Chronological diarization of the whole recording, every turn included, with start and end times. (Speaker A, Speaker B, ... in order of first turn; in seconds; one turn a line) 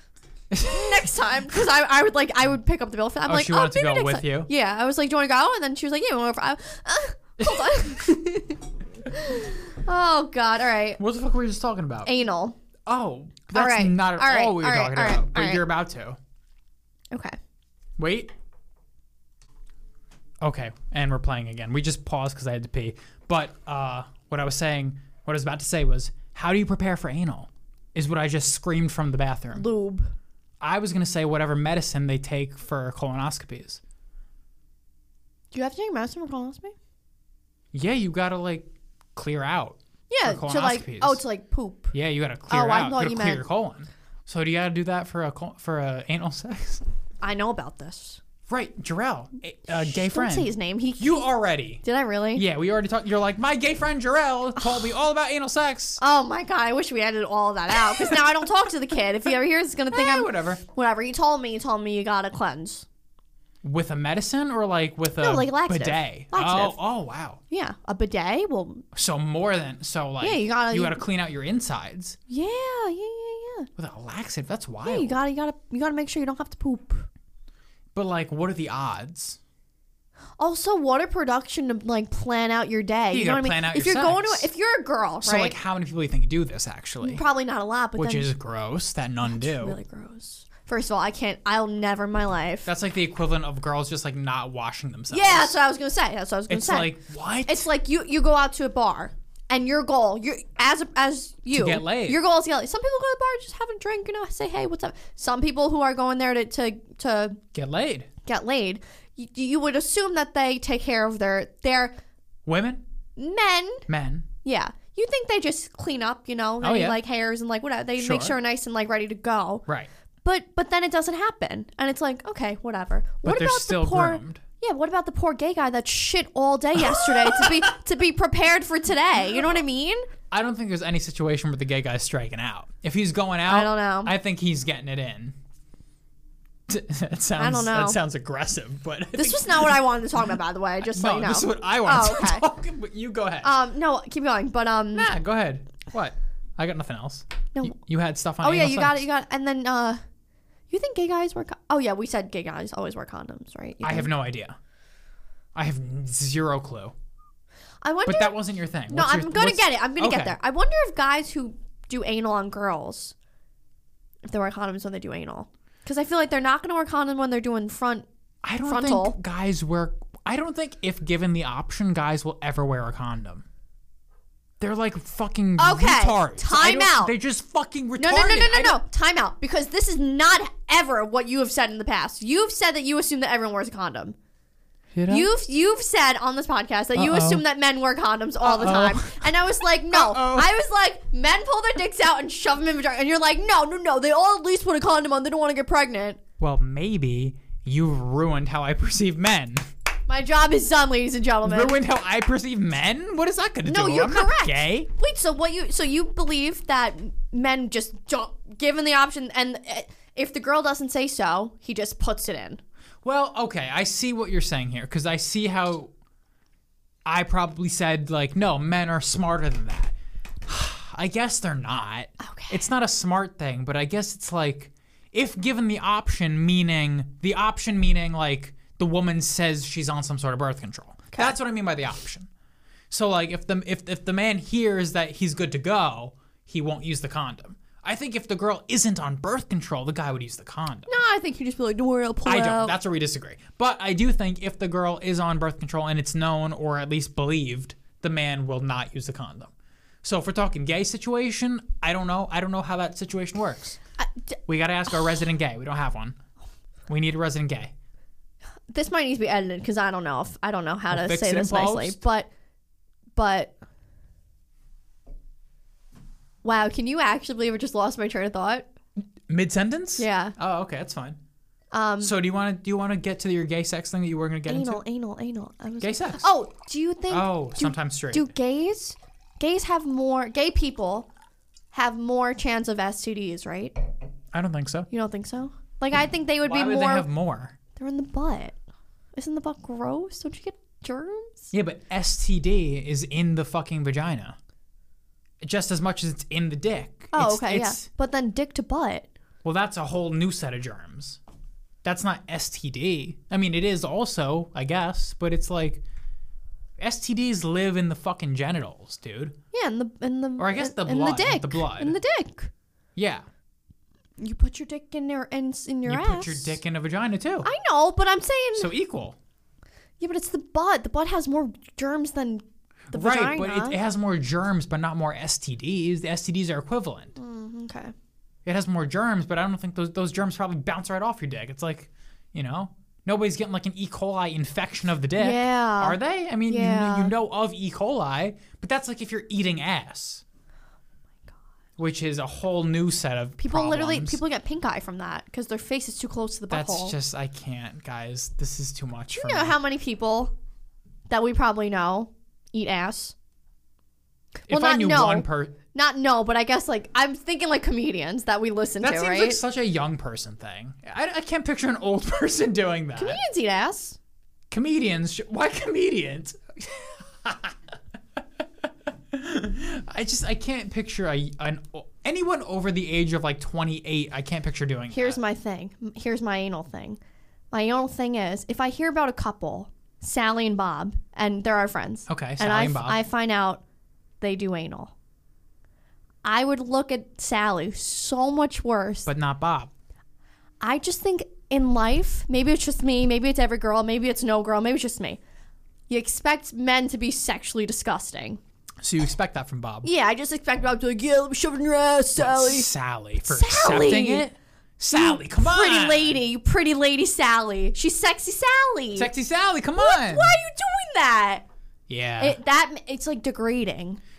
Speaker A: 0.5-1.1
Speaker B: 0.6-11.0
Speaker A: 3.3-4.5
Speaker A: 7.4-8.0
Speaker A: 11.0-12.1
Speaker B: 12.1-12.6
Speaker A: 12.9-16.2
Speaker B: 13.5-15.6
Speaker B: 17.1-17.4
Speaker A: 18.0-18.3
Speaker A: 20.4-29.7
Speaker B: 29.5-30.1
Speaker A: 30.6-33.8
Speaker B: 35.5-36.7
Speaker A: 37.7-41.2
Speaker B: 40.1-41.9
Speaker A: 41.9-46.8
Speaker B: 42.5-43.4
Speaker B: 47.2-48.2
Speaker A: 48.5-51.8
Speaker B: 49.8-51.2
Speaker B: 51.8-52.4
Speaker A: 52.3-56.0
Speaker B: 54.6-54.9
Speaker B: 56.0-62.9
Speaker A: 59.9-60.6
Speaker A: 63.6-67.4
Speaker B: 65.2-66.8
Speaker B: 67.5-68.8
Speaker A: 68.9-72.2
Speaker B: 70.2-71.0
Speaker B: 72.3-73.7
Speaker A: 73.8-75.2
Speaker B: 74.8-77.0
Speaker A: 78.0-79.4
Speaker B: 80.4-85.5
Speaker A: 83.1-84.5
Speaker A: 85.2-87.2
Speaker B: 87.0-88.3
Speaker A: 88.0-89.8
Speaker B: 89.2-92.7
Speaker A: 92.7-95.6
Speaker B: 95.1-97.0
Speaker A: 96.5-97.7
Speaker B: 97.5-107.4
Speaker A: 101.5-102.2
Speaker A: 107.5-108.1
Speaker B: 108.2-111.9
Speaker A: 112.5-112.8
Speaker B: 113.2-113.9
Speaker A: 113.9-114.3
Speaker B: 114.4-119.6
Speaker A: 116.6-117.0
Speaker A: 118.0-118.4
Speaker B: 120.2-130.1
Speaker A: 123.2-124.4
Speaker A: 126.8-127.7
Speaker A: 130.3-135.3
Speaker B: 133.5-134.1
Speaker A: 136.7-139.8
Speaker B: 137.4-138.0
Speaker B: 139.2-142.4
Speaker A: 140.9-143.5
Speaker B: 143.4-145.1
Speaker A: 144.9-149.1
Speaker B: 148.4-150.0
Speaker B: 150.7-154.1
Speaker A: 153.8-154.6
Speaker A: 155.6-156.9
Speaker B: 157.8-163.1
Speaker A: 158.1-160.4
Speaker B: 164.2-168.1
Speaker A: 168.4-173.4
Speaker B: 168.7-169.2
Speaker A: 174.6-178.8
Speaker B: 175.6-177.2
Speaker B: 178.0-184.2
Speaker A: 184.9-185.3
Speaker B: 185.1-196.2
Speaker A: 186.9-187.4
Speaker A: 188.4-190.5
Speaker A: 196.4-199.7
Speaker B: 200.1-201.8
Speaker A: 201.4-204.9
Speaker B: 203.6-212.6
Speaker A: 213.0-215.9
Speaker A: 217.1-219.9
Speaker A: 220.4-232.3
Speaker B: 222.2-222.7
Speaker A: 232.9-240.9
Speaker B: 240.9-242.8
Speaker A: 242.3-249.5
Speaker A: 250.0-253.8
Speaker A: 254.5-256.2
Speaker A: 256.9-257.7
Speaker B: 258.7-262.3
Speaker A: 260.9-262.0
Speaker B: 263.1-263.6
Speaker B: 266.4-268.7
Speaker A: 269.3-271.2
Speaker B: 270.0-270.3
Speaker B: 271.7-272.1
Speaker A: 272.0-274.8
Speaker B: 274.5-281.1
Speaker A: 275.8-276.3
Speaker A: 277.1-278.3
Speaker B: 281.7-283.8
Speaker A: 284.3-284.9
Speaker B: 284.9-287.1
Speaker A: 286.4-287.6
Speaker B: 287.8-288.6
Speaker B: 289.1-291.5
Speaker A: 291.5-294.4
Speaker A: 295.4-297.9
Speaker B: 297.1-299.1
Speaker A: 299.4-301.2
Speaker A: 301.8-305.8
Speaker A: 306.8-309.4
Speaker B: 309.5-312.5
Speaker A: 310.4-311.9
Speaker A: 312.9-313.2
Speaker B: 314.2-316.6
Speaker A: 315.9-317.5
Speaker B: 317.4-318.7
Speaker A: 318.6-319.2
Speaker B: 320.0-323.8
Speaker A: 322.9-327.1
Speaker B: 327.1-327.9
Speaker A: 328.4-340.2
Speaker B: 335.2-337.1
Speaker A: 341.8-344.2
Speaker B: 343.4-346.9
Speaker A: 346.5-349.6
Speaker B: 349.1-350.3
Speaker B: 351.1-353.1
Speaker A: 354.5-355.6
Speaker B: 354.5-359.4
Speaker A: 358.8-363.2
Speaker B: 363.0-364.0
Speaker A: 364.5-367.6
Speaker A: 369.1-375.2
Speaker B: 374.9-377.0
Speaker B: 377.5-383.6
Speaker A: 382.1-383.0
Speaker B: 384.2-384.9
Speaker B: 386.2-389.1
Speaker A: 389.1-389.7
Speaker B: 390.6-395.2
Speaker B: 395.9-398.4
Speaker A: 398.8-399.9
Speaker B: 399.8-404.3
Speaker A: 402.1-406.2
Speaker B: 404.9-409.1
Speaker A: 408.9-410.3
Speaker B: 409.8-411.4
Speaker A: 411.9-412.4
Speaker B: 412.2-414.0